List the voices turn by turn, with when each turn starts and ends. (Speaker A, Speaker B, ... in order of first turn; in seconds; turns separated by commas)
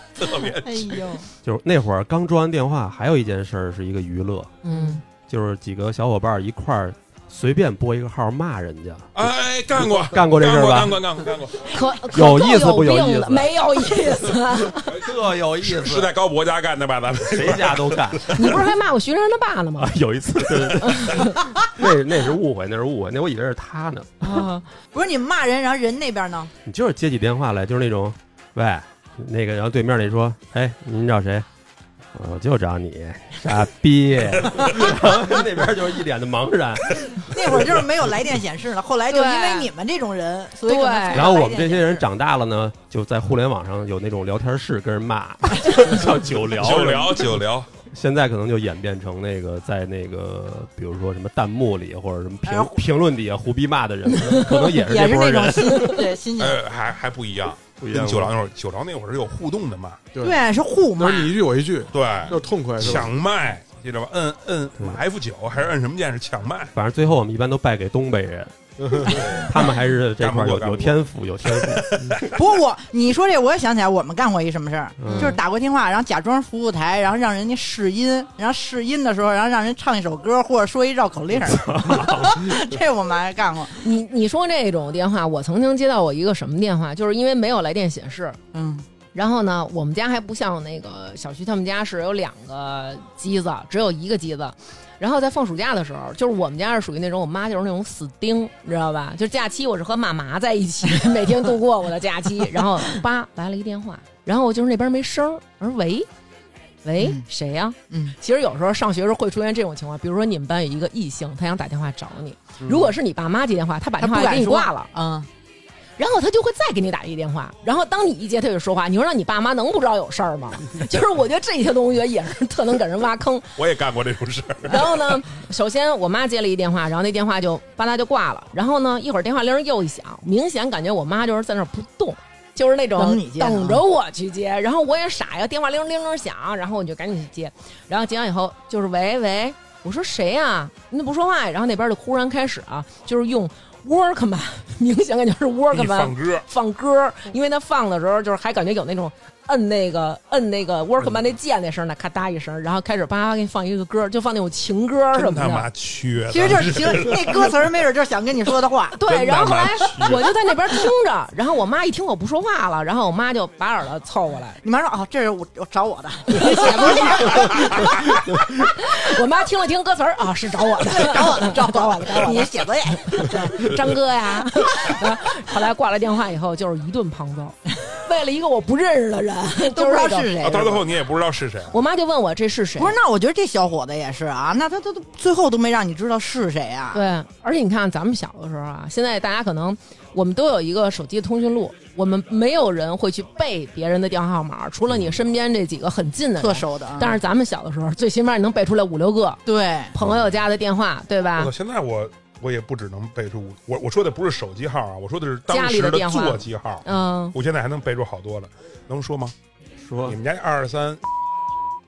Speaker A: 0.1-1.1, Speaker B: 0.6-1.3, Speaker C: 1.4-4.5, Speaker D: 4.6-5.0, Speaker C: 5.2-9.2, Speaker A: 9.1-11.8, Speaker C: 9.8-11.0, Speaker D: 11.7-14.9, Speaker C: 12.1-13.5, Speaker C: 14.7-16.1, Speaker A: 14.9-18.7, Speaker C: 17.3-18.5, Speaker D: 18.3-19.9, Speaker C: 19.8-24.5, Speaker D: 20.8-21.4, Speaker B: 24.3-26.5, Speaker C: 26.6-31.5, Speaker C: 32.1-37.0, Speaker B: 37.3-42.0, Speaker D: 39.1-39.7, Speaker D: 40.6-41.4, Speaker C: 41.1-47.3, Speaker A: 46.5-47.7, Speaker C: 47.9-56.0, Speaker B: 52.4-52.8, Speaker B: 54.6-56.6, Speaker A: 56.4-60.0, Speaker C: 57.8-58.3, Speaker E: 60.1-60.4, Speaker B: 60.2-61.3, Speaker E: 61.0-63.1, Speaker A: 61.9-66.7, Speaker C: 66.7-72.2, Speaker E: 68.8-69.2, Speaker A: 69.1-72.5, Speaker B: 72.3-83.8, Speaker C: 75.0-75.4, Speaker D: 75.1-75.4, Speaker C: 81.4-82.6, Speaker D: 83.8-88.4, Speaker B: 88.5-88.8, Speaker D: 89.1-106.1, Speaker D: 106.8-114.9, Speaker B: 107.0-107.2, Speaker B: 107.9-108.2, Speaker B: 112.6-112.9, Speaker B: 114.0-115.3, Speaker D: 116.0-123.5, Speaker A: 123.5-125.1, Speaker D: 124.7-155.7, Speaker B: 132.9-133.8, Speaker A: 145.7-146.4, Speaker A: 155.1-157.6, Speaker B: 156.3-159.0, Speaker D: 158.9-164.6, Speaker A: 159.1-160.3, Speaker B: 164.6-168.1, Speaker D: 166.3-167.9, Speaker A: 167.3-167.9, Speaker D: 168.5-180.3, Speaker B: 170.9-173.7, Speaker B: 179.7-180.9, Speaker A: 180.4-181.8, Speaker D: 181.7-182.9, Speaker B: 182.8-187.0, Speaker D: 186.9-199.4, Speaker B: 196.4-197.2, Speaker B: 199.4-199.9, Speaker D: 199.9-201.5, Speaker A: 201.4-209.3, Speaker D: 205.5-207.3, Speaker C: 209.8-210.2, Speaker A: 210.0-211.0